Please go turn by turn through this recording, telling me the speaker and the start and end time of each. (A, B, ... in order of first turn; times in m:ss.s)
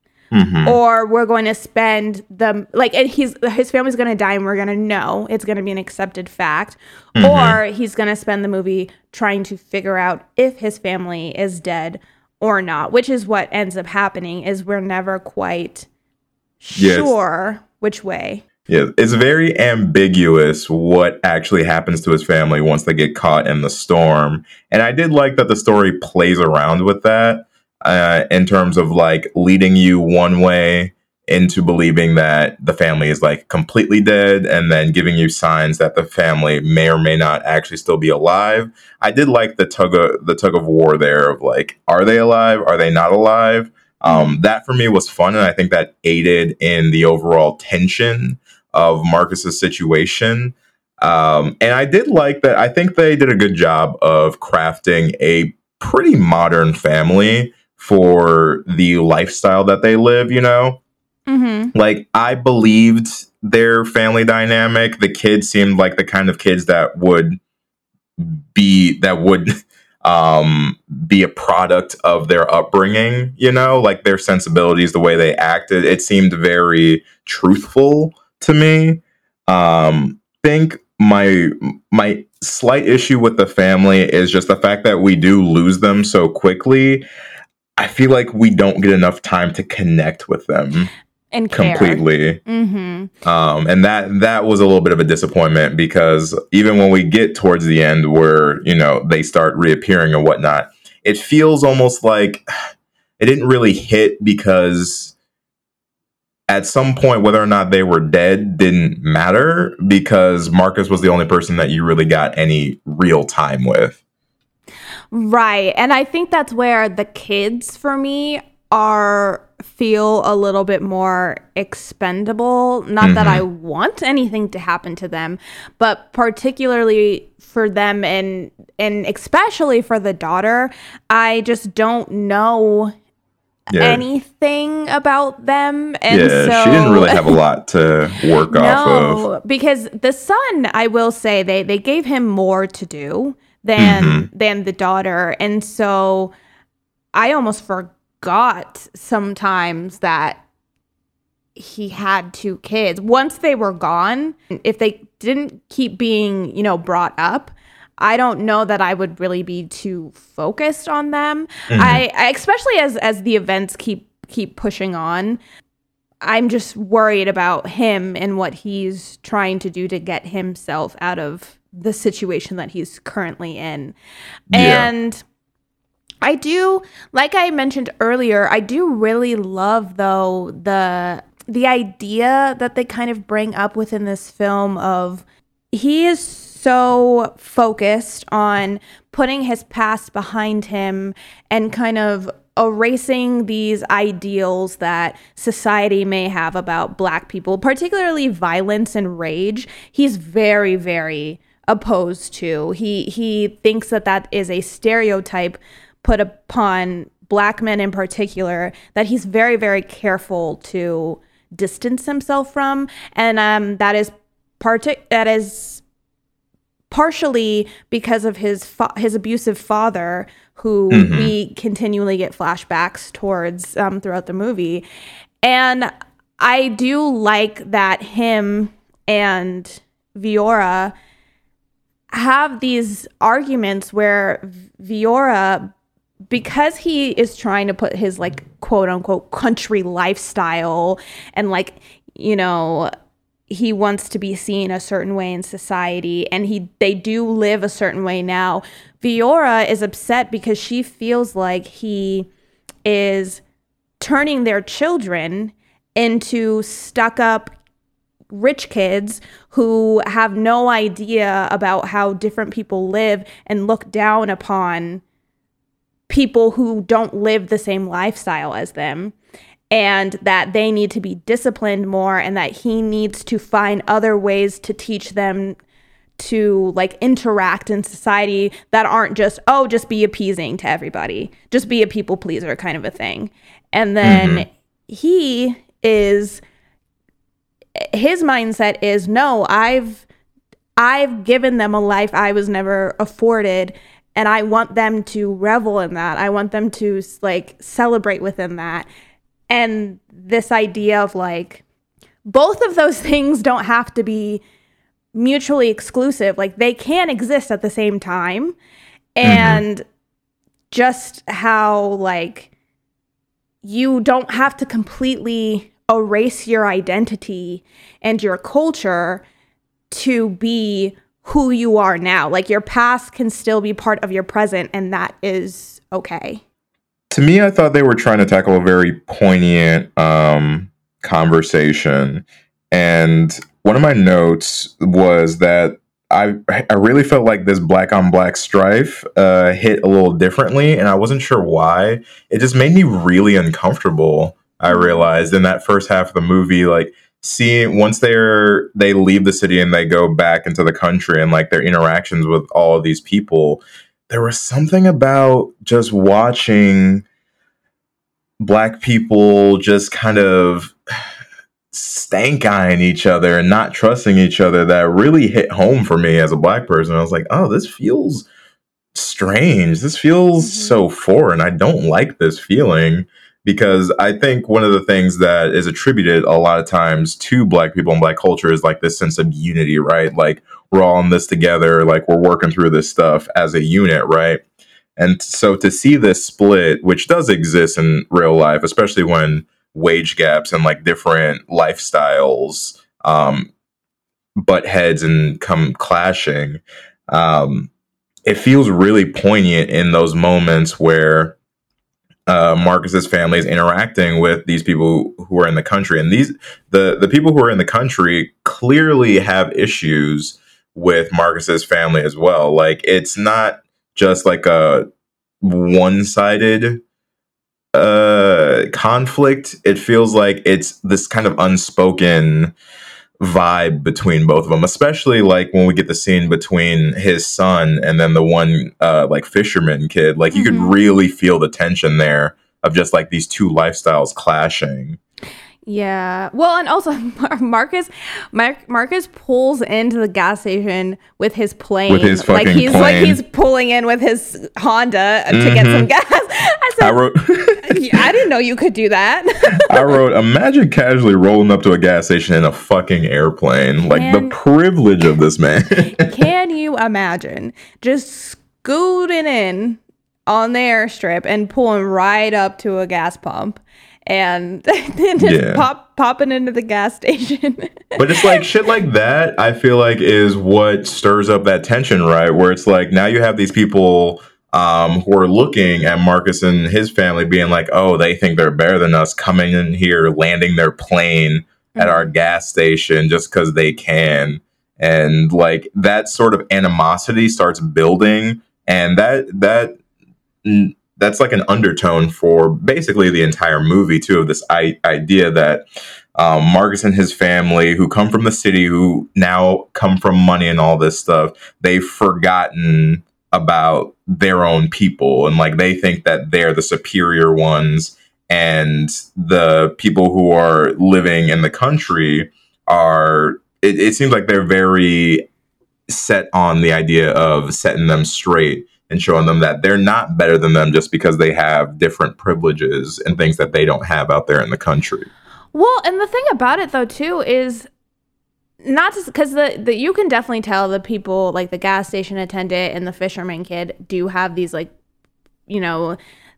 0:00.3-0:00.8 A
0:00.6-0:15.9 B
0:07.2-0:07.6 A
0:16.6-0:18.4 B
0:16.8-0:17.1 A
0:18.7-1:00.8 A
0:44.1-0:44.4 B
1:01.3-1:01.7 B
1:01.7-1:07.4 A
1:08.2-1:27.1 A
1:27.8-1:30.9 A
1:31.3-1:33.1 B
1:31.5-1:32.4 A
1:33.2-1:42.5 A
1:43.2-1:45.2 A
1:46.5-1:54.0 A
1:55.1-2:13.0 B
2:03.0-2:03.4 A
2:13.7-2:14.0 A
2:13.7-2:17.4 B
2:16.1-2:19.3 A
2:18.5-2:26.3 B
2:23.8-2:24.3 A
2:27.1-2:30.4 B
2:31.6-2:45.4 B
2:41.7-2:42.0 A
2:46.2-2:54.0 B
2:54.5-2:55.2 B
2:54.5-2:54.9 A
2:56.2-3:35.8 B
3:36.9-3:44.8 B
3:40.9-3:41.3 A
3:45.4-3:50.9 B
3:52.1-3:55.7 B
3:56.3-4:02.9 B
4:03.5-4:12.3 B
4:12.8-4:13.4 B
4:14.0-4:17.6 B
4:18.3-4:25.0 B
4:26.1-4:29.2 B
4:29.7-4:35.6 B
4:36.2-4:46.4 B
4:44.0-4:44.4 A
4:47.8-4:50.0 B
4:50.8-4:58.9 B
4:59.5-5:01.6 B
5:02.3-5:04.4 B
5:05.1-5:08.6 B
5:09.2-5:09.8 B
5:09.2-5:09.6 A
5:10.7-5:12.5 B
5:13.6-5:19.2 B
5:19.9-5:26.4 B
5:27.1-5:57.0 A
5:44.7-5:45.1 B
5:58.4-6:00.8 A
6:01.7-6:08.3 A
6:08.9-6:24.4 A
6:10.4-6:10.8 B
6:25.0-6:33.5 A
6:34.4-6:37.7 A
6:38.3-6:41.4 A
6:42.3-6:54.9 A
6:55.4-6:56.8 A
6:57.8-7:02.5 A
7:03.2-7:15.0 A
7:10.3-7:10.7 B
7:15.7-7:27.0 B
7:21.9-7:23.2 A
7:25.3-7:25.9 A
7:26.8-7:28.0 A
7:27.6-7:30.0 B
7:29.7-7:36.1 A
7:33.9-7:34.4 B
7:35.9-7:48.4 B
7:45.2-7:45.7 A
7:48.0-8:09.8 A
8:01.8-8:02.1 B
8:10.4-8:15.7 A
8:16.2-8:35.3 A
8:35.9-8:45.1 A
8:45.5-8:47.7 B
8:48.6-8:54.7 B
8:55.5-8:56.0 B